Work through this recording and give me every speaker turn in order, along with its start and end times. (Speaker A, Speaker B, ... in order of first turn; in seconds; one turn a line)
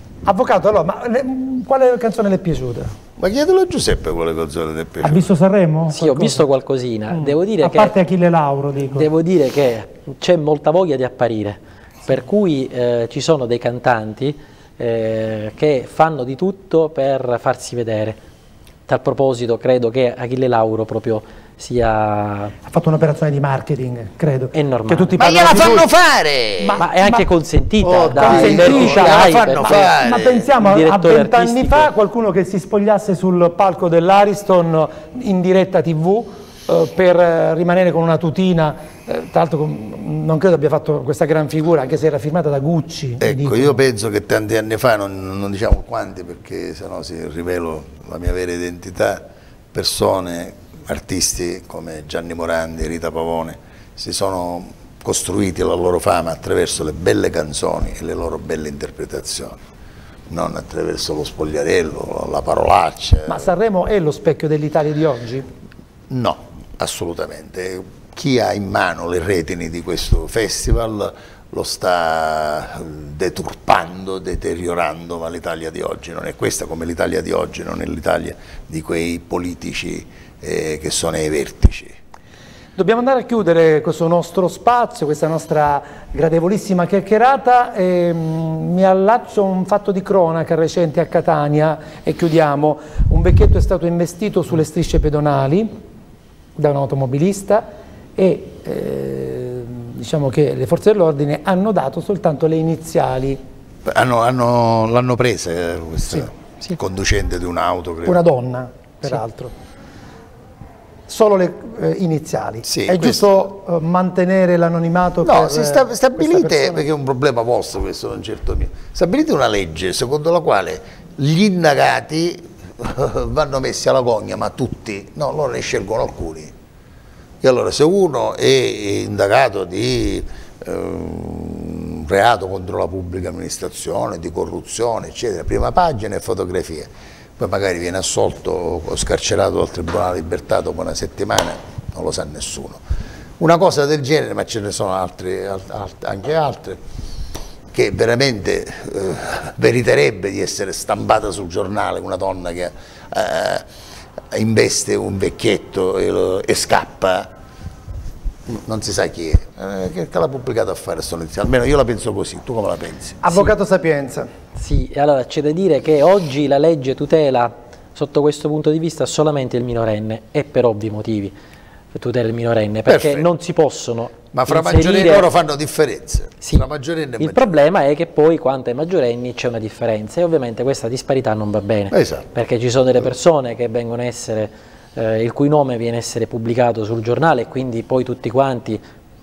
Speaker A: 0.2-2.9
Speaker B: 3.2-5.3
Speaker A: 5.0-6.5
Speaker C: 5.9-7.9
Speaker A: 7.1-9.1
Speaker C: 8.9-18.2
Speaker C: 18.9-22.6
Speaker A: 22.6-25.9
Speaker C: 24.5-25.2
Speaker B: 25.2-26.8
Speaker A: 26.6-27.3
Speaker C: 26.8-29.9
Speaker B: 27.8-30.5
Speaker A: 27.9-43.8
Speaker C: 30.6-31.9
Speaker B: 43.2-59.6
Speaker B: 60.3-63.5
Speaker A: 63.3-65.5
Speaker B: 66.1-82.0
Speaker A: 82.8-95.7
Speaker A: 96.5-103.4
Speaker B: 103.8-108.2
Speaker A: 108.0-109.5
Speaker A: 111.1-116.8
Speaker B: 112.7-113.2
Speaker B: 115.2-126.5
Speaker B: 127.4-142.8
Speaker B: 143.4-146.8
Speaker B: 147.7-153.6
Speaker B: 154.3-157.3
Speaker B: 158.5-163.2
Speaker A: 163.2-164.3
Speaker C: 164.6-171.3
Speaker C: 171.9-175.3
Speaker B: 172.9-173.2
Speaker B: 174.3-177.6
Speaker C: 177.2-188.8
Speaker B: 181.9-182.3